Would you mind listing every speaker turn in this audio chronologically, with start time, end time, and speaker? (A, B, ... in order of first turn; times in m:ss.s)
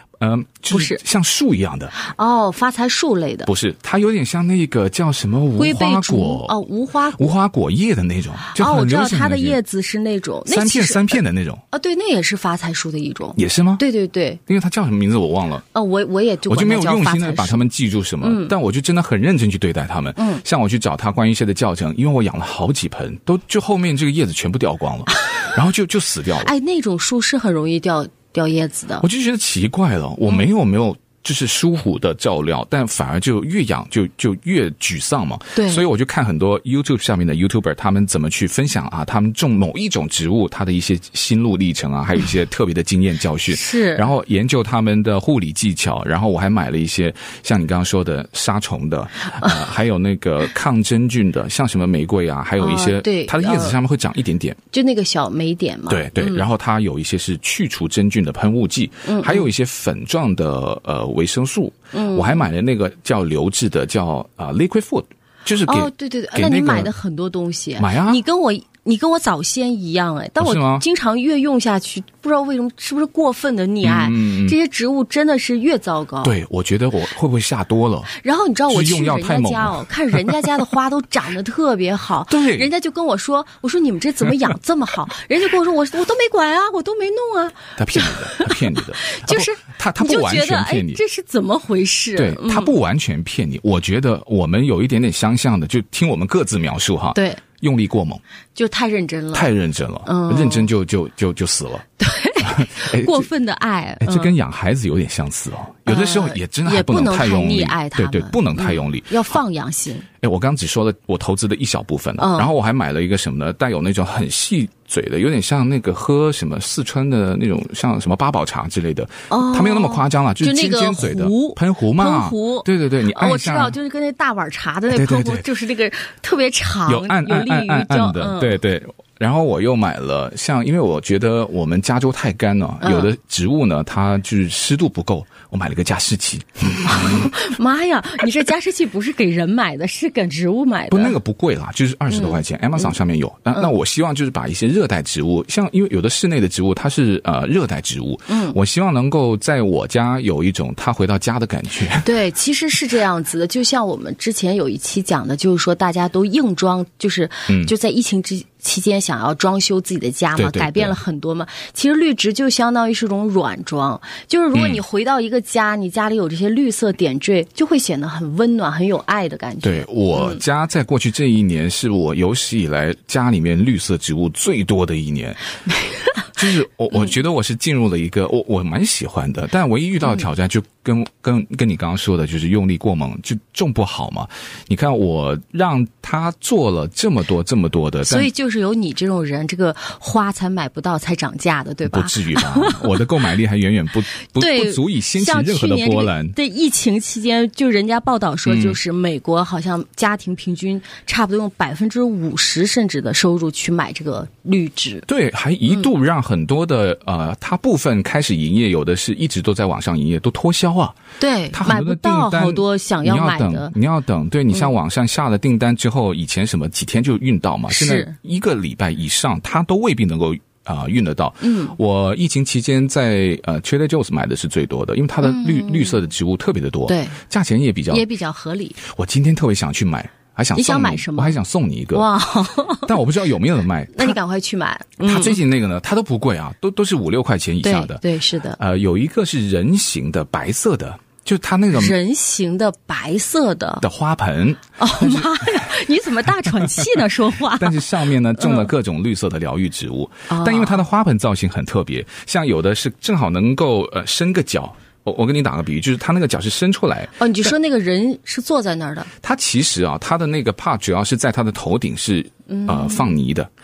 0:00.2-0:01.9 A
0:00.7-0:01.0 B
0:02.0-0:03.5 B
0:03.5-0:06.6 A
0:05.6-0:07.3 B
0:07.2-0:09.6 A
0:08.4-0:11.2 B
0:10.5-0:11.6 A
0:11.7-0:14.4 B
0:13.4-0:13.8 A
0:14.5-0:15.6 A
0:15.7-0:17.6 B
0:16.5-0:26.5 A
0:18.2-0:18.5 B
0:20.2-0:20.4 B
0:26.4-0:29.0 B
0:29.0-0:54.6 A
0:35.6-0:35.8 B
0:43.5-0:44.1 B
0:52.6-0:53.8 B
0:54.7-0:56.5 B
0:55.9-1:06.9 A
0:59.0-0:59.5 B
1:01.9-1:02.5 B
1:05.7-1:16.3 B
1:07.8-1:08.2 A
1:10.4-1:10.8 A
1:13.8-1:14.6 A
1:16.2-1:18.1 A
1:18.1-1:32.8 B
1:18.7-1:20.4 A
1:22.3-1:22.7 A
1:27.8-1:31.0 A
1:32.2-1:38.2 A
1:37.2-1:37.4 B
1:38.6-1:39.5 B
1:39.3-1:41.9 A
1:40.0-1:40.7 B
1:42.0-1:44.3 B
1:42.4-1:43.3 A
1:44.0-1:49.4 A
1:45.9-1:50.1 B
1:50.2-2:03.8 A
1:52.2-1:52.5 B
1:59.3-2:08.6 B
2:04.9-2:05.5 A
2:06.9-2:17.4 A
2:12.8-2:13.1 B
2:16.8-2:21.2 B
2:20.9-2:32.1 A
2:22.1-2:22.9 B
2:28.3-2:28.6 B
2:32.0-2:50.4 B
2:40.4-2:41.0 A
2:44.5-2:44.8 A
2:49.6-2:55.4 A
2:55.9-2:56.2 B
2:56.4-3:08.3 A
3:08.1-3:12.8 B
3:11.9-3:16.4 A
3:14.4-3:25.1 B
3:18.4-3:18.8 A
3:25.1-3:31.0 A
3:31.2-3:33.7 B
3:31.5-3:48.0 A
3:37.7-3:38.1 B
3:41.4-3:41.8 B
3:45.2-3:46.0 B
3:46.9-3:47.2 B
3:47.9-3:48.8 B
3:48.8-3:52.1 A
3:50.5-3:51.4 B
3:51.9-3:53.0 B
3:52.8-3:54.2 A
3:53.9-3:55.4 B
3:55.0-3:58.0 A
3:57.6-3:58.6 B
3:58.6-4:02.0 A
4:01.7-4:03.8 B
4:03.8-4:05.7 A
4:04.8-4:08.7 B
4:07.6-4:17.5 A
4:10.3-4:10.8 B
4:17.2-4:19.1 B
4:19.2-4:23.5 A
4:22.5-4:23.2 B